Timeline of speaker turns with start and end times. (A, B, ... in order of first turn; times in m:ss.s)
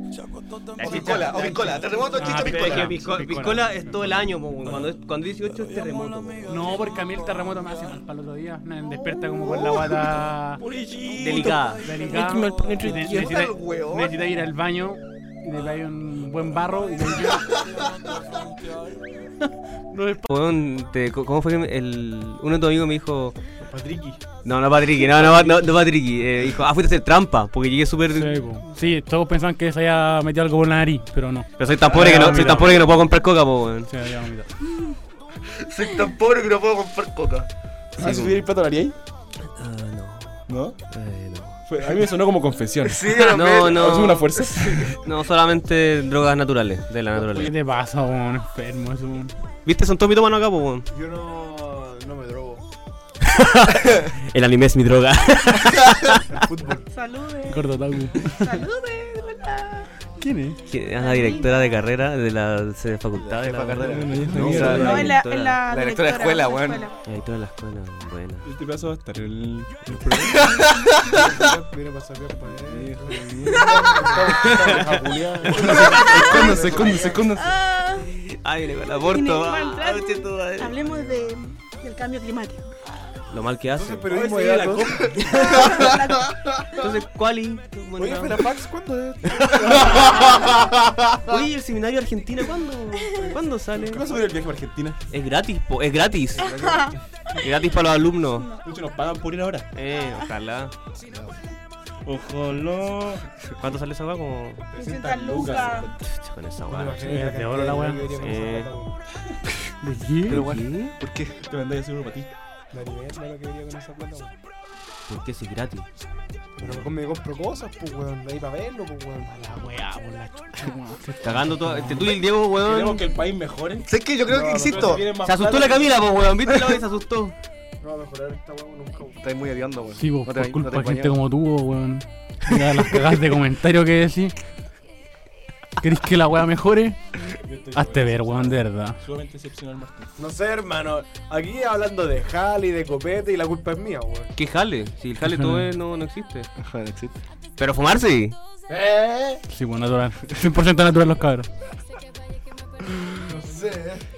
0:00.8-0:06.4 A
0:00.8-0:03.0 B
0:00.8-0:01.8 C
0:02.1-0:04.9 D
0:06.5-0:10.6 D
0:09.5-0:09.8 B
0:10.6-0:13.4 C
0:11.2-0:11.8 A
0:11.8-0:17.6 D
0:13.1-0:14.2 B
0:19.9-0:20.3 D
0:20.3-0:23.4 A
0:23.7-0:24.2 C
0:24.4-0:28.4 A
0:25.2-0:25.5 D
0:28.1-0:33.0 D
0:31.6-0:33.9 A
0:31.8-0:32.7 C
0:33.9-0:34.5 D
0:35.6-0:37.5 B
0:38.0-0:38.4 A
0:38.0-0:39.0 C
0:39.6-0:41.6 A
0:40.5-0:40.8 C
0:41.7-0:43.1 C
0:42.8-0:44.2 B
0:43.1-0:47.5 A
0:43.7-0:45.0 C
0:47.2-0:49.3 D
0:49.7-0:50.9 A
0:50.9-0:52.6 E
0:53.3-0:56.2 A
0:56.3-0:56.9 E
0:56.9-0:57.7 F
0:57.5-0:58.6 D
0:58.2-0:59.9 F
1:00.2-1:00.6 D
1:00.7-1:05.6 A
1:01.0-1:01.8 F
1:03.1-1:06.8 B
1:03.8-1:05.2 C
1:04.6-1:07.0 F
1:07.0-1:08.5 A
1:08.4-1:10.6 C
1:11.0-1:17.3 E
1:12.7-1:14.2 C
1:13.5-1:13.8 F
1:14.4-1:16.1 A
1:15.5-1:17.6 C
1:15.9-1:16.5 F
1:17.3-1:18.1 F
1:18.0-1:20.8 A
1:19.0-1:22.7 F
1:23.3-1:24.1 A
1:23.8-1:25.2 E
1:24.1-1:25.9 C
1:25.3-1:26.3 F
1:25.5-1:26.2 B
1:26.8-1:28.4 A
1:28.0-1:30.3 E
1:29.8-1:31.2 B
1:31.3-1:34.1 A
1:33.0-1:33.4 F
1:33.8-1:35.0 C
1:35.1-1:36.6 A
1:36.4-1:36.9 C
1:36.6-1:37.0 F
1:37.4-1:38.5 A
1:38.4-1:38.6 F
1:38.6-1:39.7 C
1:39.7-1:40.7 A
1:42.1-1:43.2 C
1:43.6-1:44.6 A
1:44.7-1:45.9 F
1:44.8-1:45.9 C
1:46.0-1:47.1 A
1:46.7-1:49.0 E
1:47.1-1:48.1 D
1:48.1-1:48.7 A
1:49.8-1:50.5 D
1:50.3-1:51.4 B
1:50.3-1:50.9 A
1:51.4-1:52.3 C
1:52.7-1:54.4 E
1:55.1-1:55.9 A
1:56.6-1:59.7 E
1:59.5-2:02.2 D
2:01.2-2:03.1 A
2:02.6-2:03.9 C
2:03.8-2:05.1 B
2:04.3-2:05.0 E
2:04.5-2:06.0 C
2:05.1-2:07.4 A
2:07.8-2:09.2 E
2:09.2-2:11.1 B
2:10.0-2:14.4 D
2:15.8-2:17.1 D
2:17.4-2:20.1 C
2:17.7-2:19.0 D
2:20.2-2:24.3 E
2:24.4-2:26.5 A
2:25.2-2:25.7 D
2:26.6-2:27.2 B
2:27.6-2:28.4 A
2:28.9-2:29.4 C
2:29.5-2:31.5 D
2:33.3-2:33.7 C